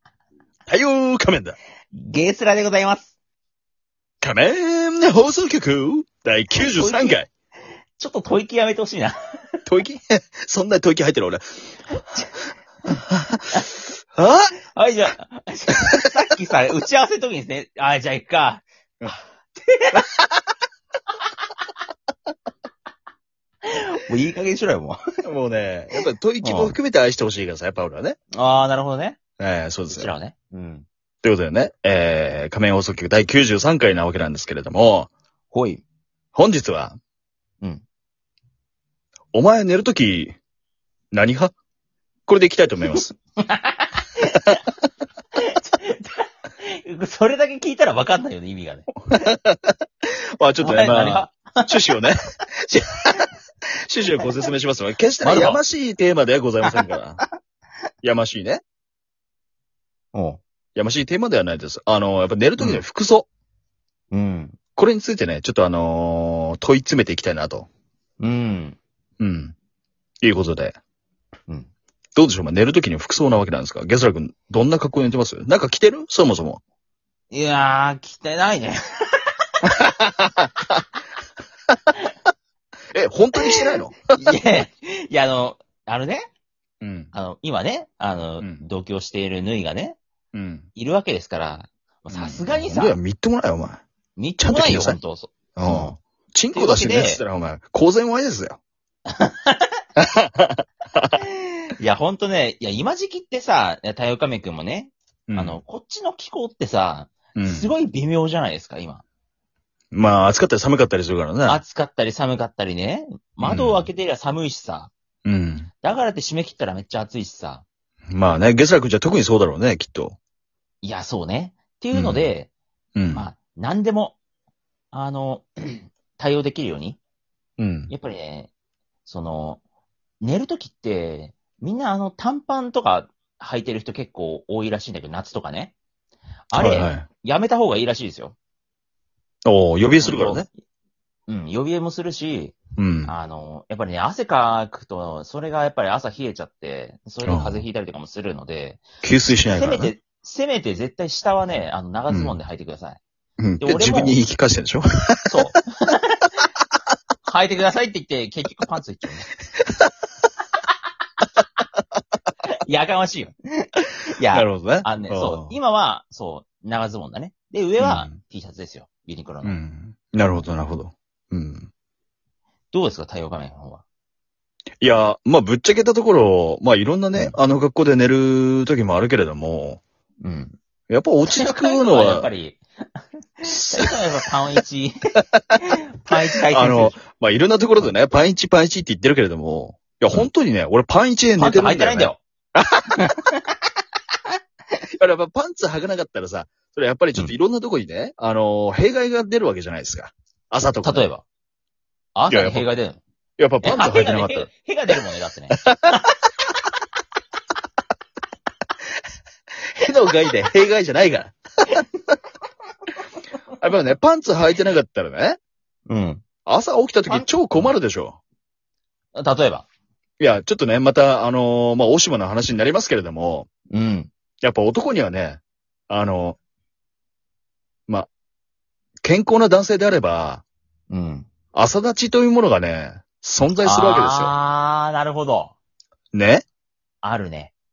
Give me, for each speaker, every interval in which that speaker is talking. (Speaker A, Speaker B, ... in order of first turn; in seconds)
Speaker A: 0.7-1.6, 4.2-7.3, 9.7-11.6, 13.1-13.4, 14.2-14.5, 25.2-28.1, 29.4-30.1, 31.2-35.1, 36.3-37.0, 39.3-40.3, 41.1-41.5, 42.3-43.1, 49.1-53.2, 53.9-57.2, 58.0-58.6, 60.8-63.3, 64.7-67.7, 69.2-69.5, 70.2-70.8, 72.2-76.6, 79.6-80.5, 82.9-84.3, 86.8-87.1, 88.4-88.6, 90.3-90.7, 92.1-93.8, 94.4-95.0, 95.5-98.6, 100.0-101.1, 105.3-105.6, 107.3-107.7, 109.9-111.6, 113.4-113.9, 115.2-115.7, 118.1-120.2, 121.9-122.3, 123.0-123.3, 127.6-127.9, 136.5-137.1, 139.4-140.5, 142.8-143.1, 147.2-147.7, 149.0-149.9, 152.1-152.3, 153.4-155.6, 164.3-165.5, 167.8-168.2, 169.4-171.7, 174.8-179.8, 180.9-182.3, 183.5-183.9, 186.4-192.9, 195.0-201.1, 202.3-202.7, 203.4-204.5, 205.6-205.9, 209.8-211.8, 213.6-215.4, 216.4-218.2, 220.2-223.5, 224.4-226.4, 229.0-230.4, 231.5-234.3, 236.1-236.4
Speaker B: 1.9-3.1, 6.5-7.2, 8.0-9.2, 12.0-12.3, 14.6-18.6, 19.6-20.3, 23.6-25.0, 26.4-26.8, 28.3-29.2, 29.9-30.9, 35.5-35.8, 42.9-44.6, 45.3-49.3, 50.6-51.8, 54.2-54.4, 55.2-55.6, 60.1-60.4, 62.6-62.8, 64.1-64.6, 68.2-68.8, 77.3-79.5, 83.4-86.2, 87.1-90.0, 90.8-93.0, 94.2-96.0, 96.5-97.2, 99.1-99.8, 101.2-109.0, 111.5-114.9, 115.8-117.6, 120.8-122.5, 123.1-124.2, 124.9-127.0, 127.9-128.5, 129.1-129.6, 130.2-135.7, 136.5-138.3, 140.0-140.4, 141.3-148.8, 149.4-153.0, 153.6-154.2, 155.3-156.4, 157.2-159.3, 162.6-169.6, 172.7-173.8, 180.2-180.5, 181.2-182.6, 183.4-184.9, 185.5-187.0, 191.3-192.2, 192.9-193.5, 200.8-201.2, 202.2-203.0, 203.6-206.0, 215.9-216.3, 217.1-217.6, 219.1-219.7, 223.7-224.1, 230.9-231.3, 233.6-235.5, 237.0-237.5